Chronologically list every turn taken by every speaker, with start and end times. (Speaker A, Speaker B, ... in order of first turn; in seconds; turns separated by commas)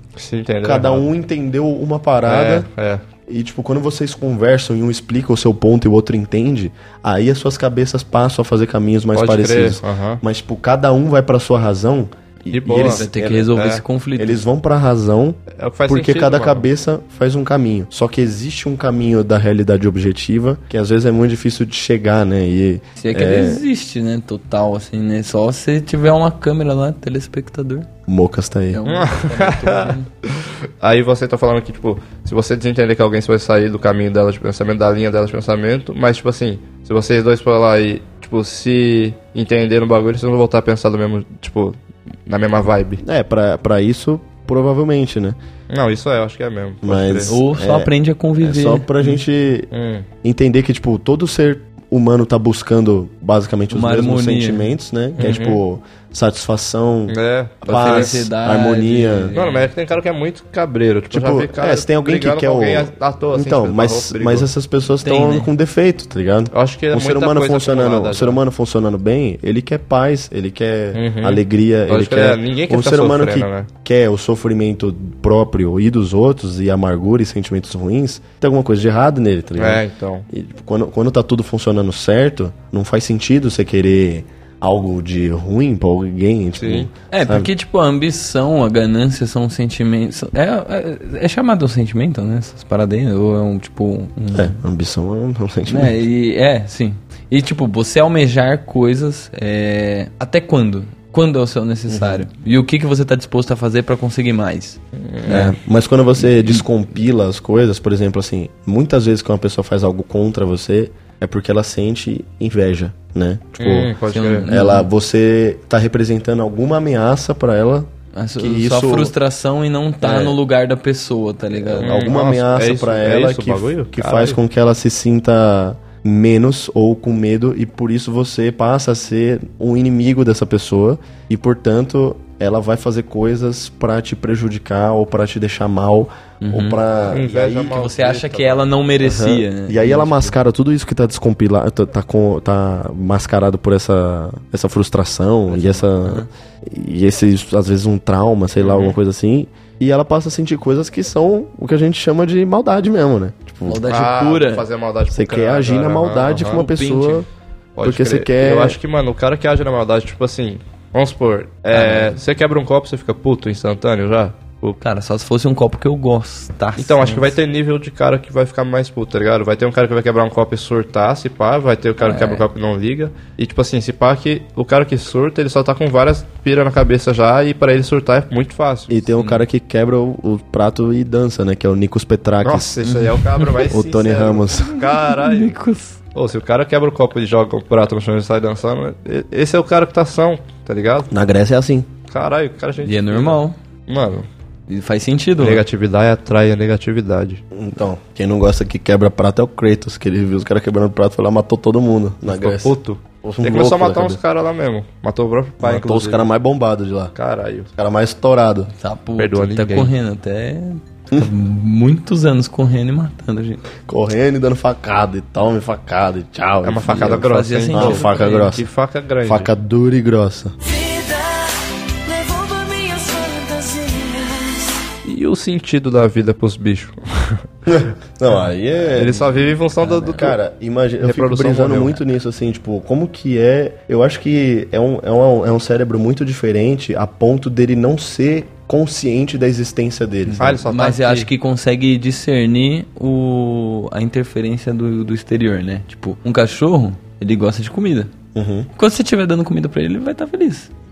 Speaker A: 0.2-1.1, Speaker B: 0.6-2.7, Speaker A: 2.2-3.0, Speaker B: 3.3-13.5, Speaker A: 9.1-10.2, Speaker A: 12.5-13.8, Speaker C: 12.7-14.4, Speaker B: 14.2-23.6, Speaker A: 15.5-16.7, Speaker C: 23.0-27.9, Speaker B: 28.1-28.8, Speaker C: 28.7-30.1, Speaker A: 28.9-43.0, Speaker B: 43.0-45.4, Speaker A: 45.7-47.3, Speaker B: 46.8-49.7, Speaker C: 47.3-48.9, Speaker A: 49.7-50.1, Speaker B: 50.2-59.4, Speaker C: 53.7-54.7, Speaker A: 55.2-55.6, Speaker A: 57.1-58.2, Speaker C: 57.7-59.7, Speaker A: 59.3-64.5, Speaker B: 61.1-87.5, Speaker C: 65.0-65.5, Speaker A: 66.5-68.4, Speaker A: 70.9-73.7, Speaker A: 79.6-80.3, Speaker A: 86.6-86.9, Speaker C: 87.1-94.6, Speaker B: 94.3-96.0, Speaker C: 95.7-105.5, Speaker B: 101.9-102.3, Speaker A: 105.0-105.5, Speaker B: 105.3-113.9, Speaker C: 106.2-106.6, Speaker A: 113.6-114.6, Speaker C: 114.1-114.9, Speaker B: 114.5-119.1, Speaker C: 118.2-122.0, Speaker A: 120.1-120.3, Speaker A: 121.7-124.4, Speaker B: 121.7-137.8, Speaker C: 136.4-136.8, Speaker A: 137.1-138.7, Speaker C: 137.7-140.4, Speaker B: 139.0-153.8, Speaker C: 145.5-146.3, Speaker A: 148.6-149.0, Speaker C: 153.7-154.7, Speaker A: 153.9-156.6, Speaker B: 155.1-157.3, Speaker C: 156.5-157.2, Speaker A: 157.8-164.8, Speaker B: 157.8-158.8, Speaker C: 161.7-162.2, Speaker C: 164.8-167.3, Speaker A: 166.8-179.1, Speaker C: 172.0-172.4, Speaker B: 178.9-182.8, Speaker A: 182.4-185.6, Speaker C: 182.8-183.7, Speaker B: 183.7-184.8, Speaker C: 184.7-186.0, Speaker A: 186.2-191.1, Speaker B: 191.1-191.9, Speaker A: 192.1-194.3, Speaker C: 192.8-193.6, Speaker C: 194.7-195.6, Speaker A: 195.4-197.4, Speaker B: 197.5-204.2, Speaker A: 202.3-206.3, Speaker B: 205.6-207.1, Speaker A: 207.2-207.7, Speaker B: 207.8-208.7, Speaker C: 208.8-213.6, Speaker A: 209.2-209.9, Speaker B: 213.9-218.7, Speaker A: 216.6-219.5, Speaker C: 217.0-218.6, Speaker B: 219.2-220.6, Speaker C: 220.7-224.7, Speaker A: 225.0-227.4, Speaker B: 227.7-229.4, Speaker A: 228.9-230.4, Speaker C: 229.8-230.3, Speaker B: 230.1-240.6, Speaker A: 231.0-232.0, Speaker C: 240.3-248.1, Speaker A: 240.4-241.3, Speaker B: 248.3-248.7, Speaker C: 248.8-250.7